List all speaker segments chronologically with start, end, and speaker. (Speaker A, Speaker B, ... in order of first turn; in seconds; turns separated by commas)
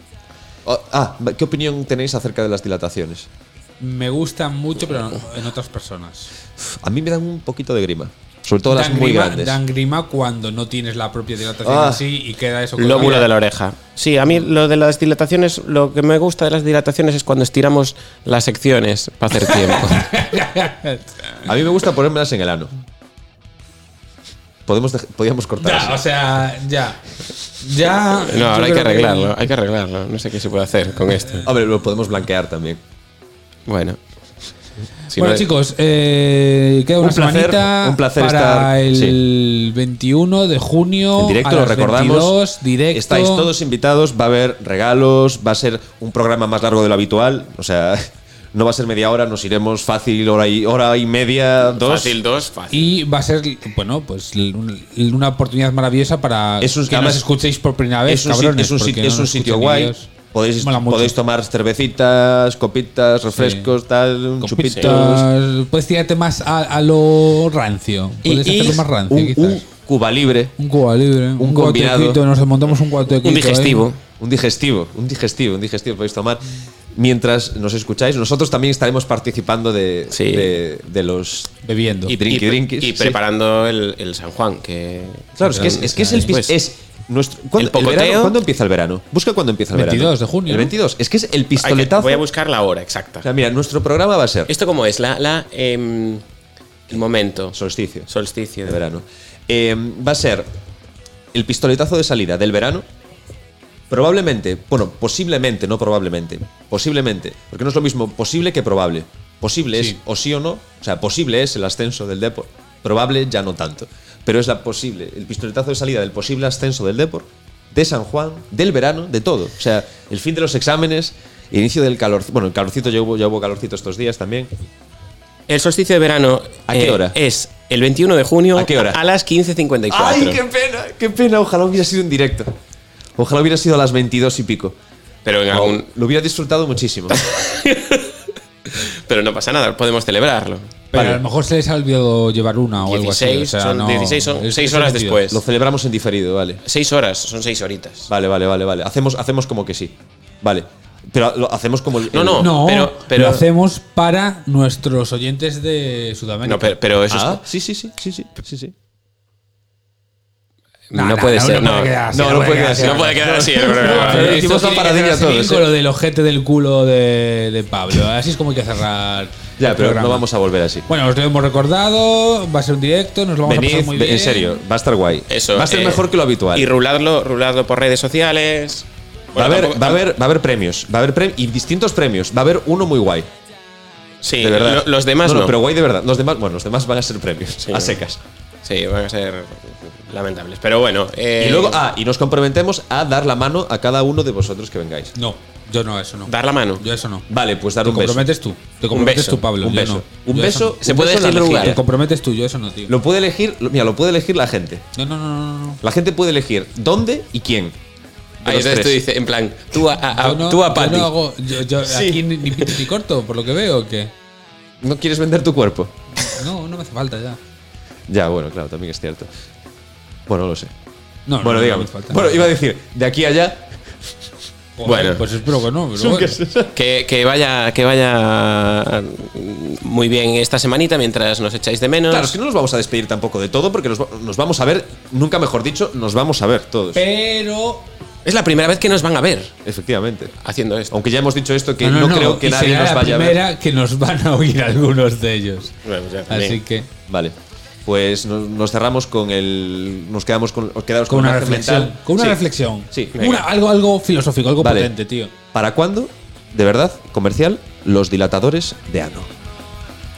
Speaker A: 0.6-3.3, Speaker B: 3.8-6.3, Speaker A: 6.6-9.6, Speaker B: 8.7-13.3, Speaker A: 11.6-12.1, Speaker C: 12.8-20.1, Speaker B: 19.4-21.5, Speaker A: 21.4-22.7, Speaker A: 24.6-26.0, Speaker B: 25.6-27.0, Speaker B: 27.6-29.3, Speaker C: 28.1-31.5, Speaker A: 31.4-32.8, Speaker C: 33.7-34.0, Speaker C: 35.1-35.5, Speaker B: 35.1-43.5, Speaker A: 37.0-39.2, Speaker A: 41.2-42.4, Speaker A: 42.9-52.2, Speaker C: 51.7-52.9, Speaker B: 52.7-61.2, Speaker A: 56.6-57.3, Speaker A: 58.0-65.3, Speaker B: 63.3-63.8, Speaker B: 64.4-69.6, Speaker C: 64.7-65.0, Speaker C: 68.2-68.8, Speaker A: 69.1-70.5, Speaker B: 70.6-73.8, Speaker A: 71.4-72.2, Speaker C: 73.2-74.0, Speaker A: 74.2-83.2, Speaker C: 80.1-80.6, Speaker B: 81.6-82.2, Speaker C: 82.1-86.5, Speaker A: 85.4-92.2, Speaker B: 85.4-86.3, Speaker C: 87.6-88.4, Speaker B: 89.7-90.7, Speaker C: 91.5-93.3, Speaker A: 93.2-94.5, Speaker C: 94.5-96.2, Speaker C: 96.9-97.5, Speaker A: 97.5-98.1, Speaker C: 98.1-98.8, Speaker A: 98.6-100.5, Speaker A: 101.3-102.8, Speaker A: 103.9-124.5, Speaker C: 125.5-130.4, Speaker A: 126.7-127.2, Speaker A: 128.5-129.0, Speaker A: 129.9-132.5, Speaker A: 133.2-134.8, Speaker C: 135.2-135.9, Speaker A: 135.5-137.3, Speaker C: 137.1-138.2, Speaker C: 138.7-140.7, Speaker B: 140.9-145.2, Speaker A: 140.9-141.2, Speaker C: 142.8-145.4, Speaker A: 145.3-146.6, Speaker C: 146.6-148.1, Speaker A: 148.1-152.5, Speaker C: 152.1-153.4, Speaker B: 152.4-156.8, Speaker C: 156.4-157.4, Speaker A: 157.1-158.7, Speaker C: 160.9-162.0, Speaker B: 160.9-170.2, Speaker A: 162.1-165.7, Speaker C: 162.7-164.4, Speaker A: 169.6-170.9, Speaker B: 170.9-174.6, Speaker A: 173.4-176.7, Speaker C: 175.3-180.0, Speaker A: 179.3-183.3, Speaker C: 184.2-185.6, Speaker A: 184.4-188.2, Speaker C: 187.6-188.0, Speaker C: 188.6-191.8, Speaker A: 191.4-195.1, Speaker B: 195.2-197.3, Speaker C: 196.3-196.8, Speaker A: 197.3-198.3, Speaker B: 197.8-200.8, Speaker C: 198.9-199.5, Speaker A: 199.6-201.8, Speaker C: 200.8-201.8, Speaker B: 201.6-202.9, Speaker A: 202.9-204.8, Speaker B: 204.9-205.8, Speaker A: 205.8-207.8, Speaker A: 208.4-209.0, Speaker C: 208.4-211.1, Speaker B: 210.1-214.1, Speaker A: 211.8-212.2, Speaker A: 214.8-216.3, Speaker B: 216.2-217.4, Speaker A: 218.1-219.3, Speaker A: 220.3-220.7, Speaker B: 221.3-222.5, Speaker A: 221.4-223.9, Speaker B: 224.8-226.4, Speaker C: 224.8-225.2, Speaker A: 225.9-226.7, Speaker C: 226.7-232.3, Speaker A: 232.1-237.0, Speaker B: 236.9-237.9, Speaker C: 238.2-239.5, Speaker A: 239.6-240.3, Speaker C: 240.4-241.1, Speaker A: 240.9-243.4, Speaker B: 241.8-245.8, Speaker C: 245.8-246.6, Speaker B: 246.3-246.9, Speaker A: 247.1-253.2, Speaker B: 251.1-255.3, Speaker C: 253.2-253.5, Speaker A: 254.6-254.9, Speaker A: 255.5-259.3